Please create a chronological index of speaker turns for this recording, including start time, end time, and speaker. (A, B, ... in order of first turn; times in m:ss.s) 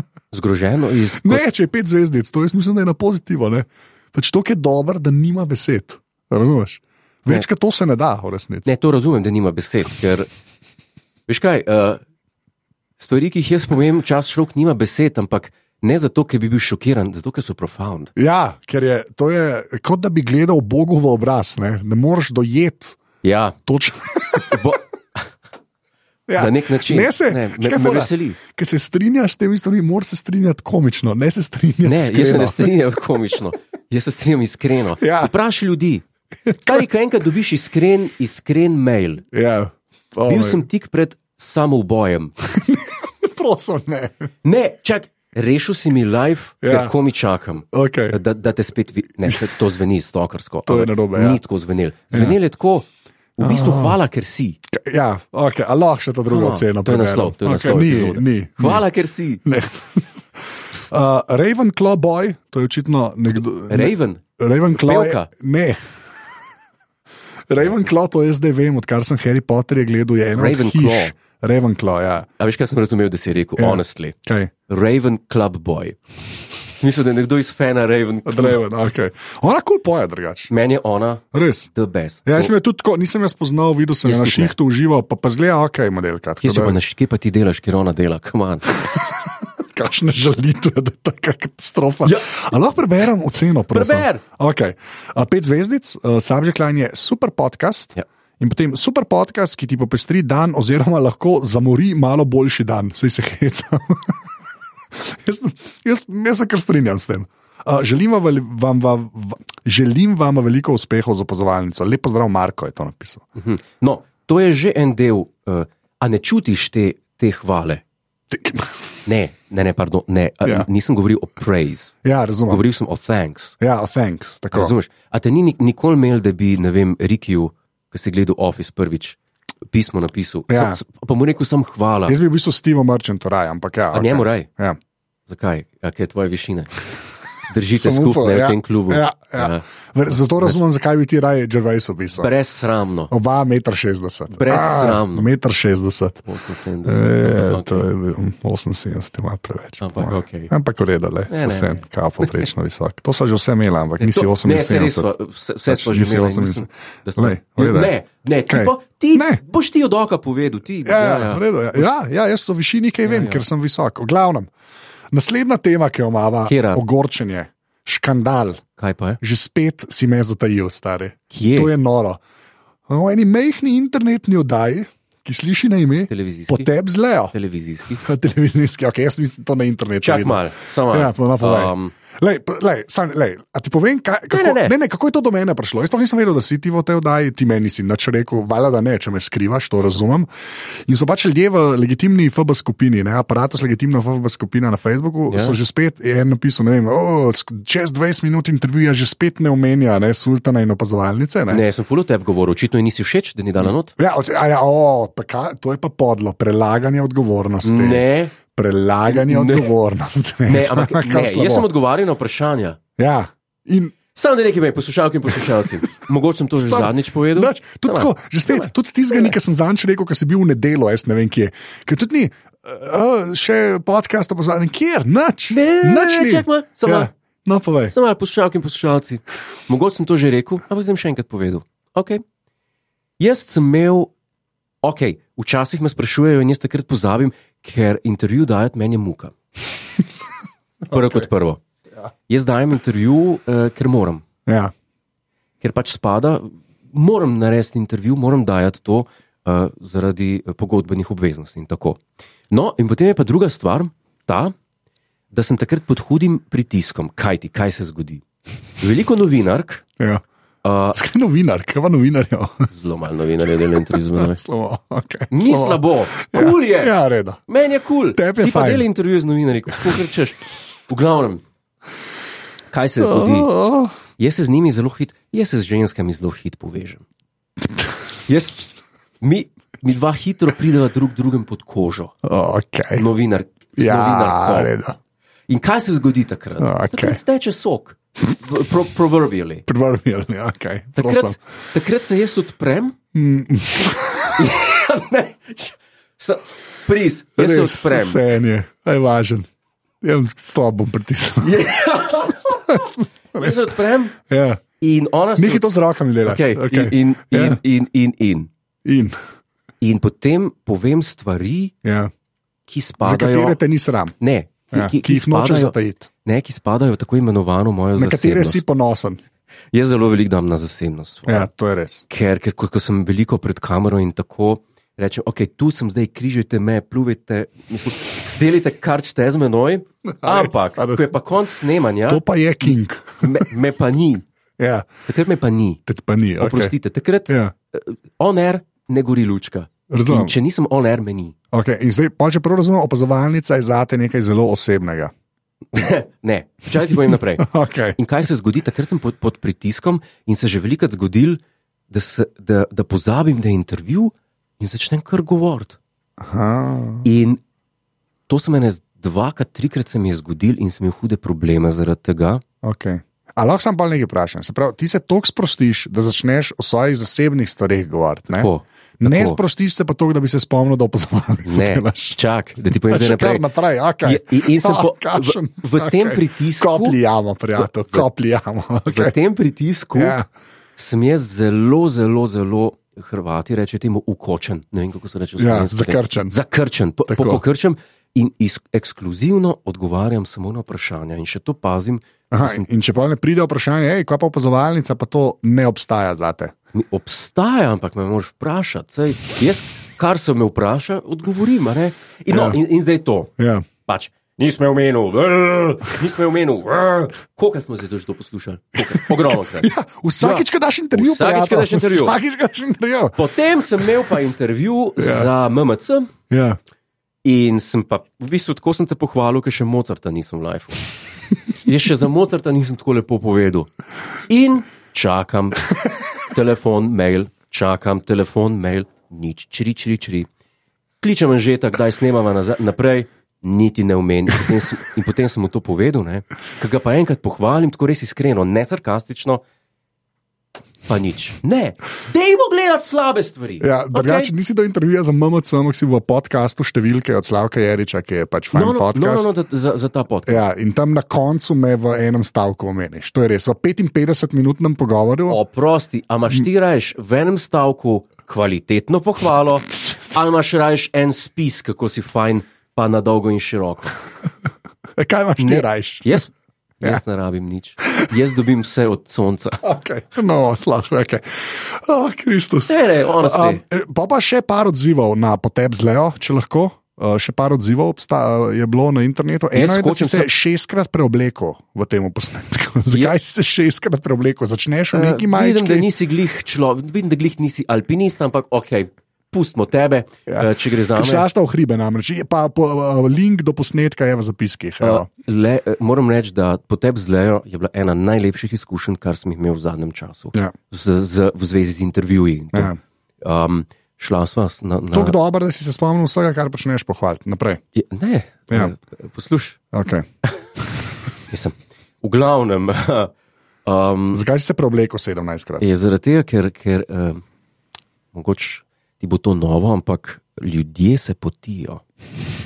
0:00.3-0:01.4 A
0:01.2-0:08.7 B
0:08.6-0:10.3 A
0:11.3-0:12.0 A
0:13.0-0:18.1 A
0:18.2-0:23.0 B
0:23.2-0:23.6 A
0:23.6-0:24.6 B
0:24.3-0:25.3 A
0:26.3-0:32.7 B
0:26.4-0:28.4 A
0:31.8-0:36.0 A
0:35.0-0:35.3 B
0:36.4-0:36.8 B
0:36.6-0:39.2 A
0:39.3-0:40.6 B
0:40.3-0:42.3 A
0:42.4-0:44.3 B
0:44.4-0:52.8 A
0:46.6-0:46.9 B
0:47.7-0:48.2 B
0:50.6-0:51.4 B
0:53.4-0:54.6 A
0:53.4-0:54.0 B
0:54.7-0:58.8 B
0:56.3-0:59.4 A
0:59.4-1:05.8 B
1:03.4-1:04.2 A
1:04.7-1:05.3 A
1:07.5-1:12.3 B
1:10.3-1:11.2 A
1:12.4-1:14.1 A
1:13.6-1:14.5 B
1:14.7-1:16.0 A
1:16.7-1:18.6 A
1:18.2-1:20.5 B
1:20.5-1:22.5 A
1:21.3-1:21.7 B
1:22.2-1:26.8 B
1:24.0-1:24.5 A
1:26.4-1:28.8 A
1:28.9-1:44.3 B
1:33.7-1:34.2 A
1:44.9-1:53.2 B
1:53.4-1:57.8 A
1:58.3-1:58.7 B
1:59.0-2:01.9 A
2:02.0-2:02.6 B
2:02.5-2:03.6 A
2:03.6-2:04.7 B
2:04.5-2:09.2 A
2:09.7-2:12.2 A
2:10.5-2:10.8 B
2:12.1-2:14.8 B
2:13.9-2:14.5 A
2:15.3-2:16.8 A
2:17.5-2:19.6 A
2:17.8-2:22.3 B
2:22.2-2:23.1 A
2:23.1-2:26.2 B
2:24.3-2:25.3 A
2:26.2-2:27.9 A
2:26.8-2:35.1 B
2:29.8-2:30.5 A
2:31.3-2:32.4 A
2:34.0-2:41.9 A
2:35.7-2:37.9 B
2:38.5-2:39.4 B
2:40.8-2:44.5 B
2:43.0-2:43.4 A
2:45.1-2:48.6 B
2:46.4-2:46.8 A
2:48.8-2:49.2 A
2:49.2-2:52.2 B
2:51.3-2:51.7 A
2:52.9-2:57.3 B
2:56.1-2:56.7 A
2:57.3-2:58.0 A
2:58.0-3:21.6 B
3:00.0-3:01.9 A
3:04.3-3:04.7 A
3:15.3-3:15.6 A
3:21.5-3:23.9 A
3:24.0-3:31.7 B
3:27.6-3:28.4 A
3:29.1-3:29.7 A
3:30.4-3:32.8 A
3:33.0-3:34.0 B
3:34.1-3:39.3 A
3:36.6-3:47.9 B
3:45.5-3:47.1 A
3:47.9-3:52.2 A
3:53.2-3:54.1 A
3:54.8-3:59.3 A
4:00.9-4:01.6 A
4:00.9-4:01.3 B
4:02.3-4:04.2 A
4:04.4-4:04.7 B
4:05.6-4:14.5 A
4:15.3-4:18.2 A
4:18.8-4:19.8 A
4:20.0-4:20.2 B
4:20.6-4:21.0 A
4:20.9-4:22.7 B
4:22.7-4:24.4 A
4:24.1-4:27.4 B
4:25.3-4:26.9 A
4:27.5-4:30.4 A
4:28.2-4:28.8 B
4:30.9-4:31.4 A
4:32.7-4:33.5 A
4:33.0-4:33.9 B
4:34.2-4:37.0 A
4:38.3-4:38.7 A
4:39.2-4:42.1 A
4:42.2-4:43.0 B
4:42.9-4:44.7 A
4:43.8-4:45.0 B
4:45.5-4:49.6 A
4:46.6-4:47.2 B
4:49.6-4:51.4 B
4:51.0-4:53.0 A
4:53.1-4:54.4 B
4:54.4-4:58.2 A
4:57.4-4:59.5 B
5:00.0-5:01.7 B
5:01.4-5:02.7 A
5:02.7-5:03.6 B
5:03.3-5:04.2 A
5:04.3-5:04.6 B
5:04.8-5:05.7 A
5:05.4-5:07.6 B
5:06.2-5:08.5 A
5:08.8-5:09.2 B
5:09.8-5:11.7 A
5:11.8-5:12.1 B
5:12.7-5:13.6 A
5:13.0-5:14.1 B
5:14.2-5:18.6 A
5:14.7-5:16.1 B
5:18.0-5:19.2 B
5:19.7-5:21.5 A
5:21.3-5:22.0 B
5:22.1-5:34.2 A
5:30.2-5:31.0 B
5:32.0-5:33.5 B
5:34.6-5:34.9 B
5:35.1-5:35.8 A
5:35.9-5:36.7 B
5:36.4-5:41.3 A
5:39.9-5:40.3 B
5:41.5-5:45.1 B
5:45.7-5:55.8 A
5:47.4-5:48.0 B
5:56.2-5:57.0 B
5:57.0-5:57.4 A
5:58.3-6:02.4 A
6:02.6-6:08.5 B
6:08.3-6:09.4 A
6:09.0-6:12.2 B
6:11.4-6:13.5 A
6:12.9-6:19.1 B
6:14.0-6:17.0 A
6:17.6-6:18.0 A
6:18.9-6:20.2 A
6:19.9-6:20.3 B
6:20.8-6:32.7 A
6:25.4-6:26.3 B
6:27.1-6:27.4 B
6:32.3-6:36.5 B
6:36.7-6:43.3 A
6:42.3-6:42.6 B
6:43.4-6:43.6 B
6:43.8-6:52.2 A
6:48.8-6:53.2 B
6:53.2-6:56.1 A
6:55.0-6:55.3 B
6:56.3-6:56.6 B
6:57.2-7:00.8 A
7:01.6-7:03.7 A
7:04.3-7:05.7 A
7:06.3-7:10.3 A
7:11.0-7:19.4 A
7:20.9-7:24.3 A
7:23.6-7:29.3 B
7:28.5-7:30.5 A
7:30.3-7:35.4 B
7:35.3-7:44.0 A
7:45.0-7:46.2 B
7:45.4-7:49.6 A
7:49.6-8:05.9 B
7:52.7-7:53.6 A
7:59.5-8:00.3 A
8:04.9-8:11.2 A
8:10.3-8:15.1 B
8:14.8-8:25.2 A
8:24.9-8:27.6 B
8:27.7-8:29.6 A
8:29.7-8:30.0 B
8:31.3-8:33.1 A
8:33.6-8:34.2 A
8:34.1-8:35.6 B
8:35.6-8:37.2 A
8:38.1-8:41.8 A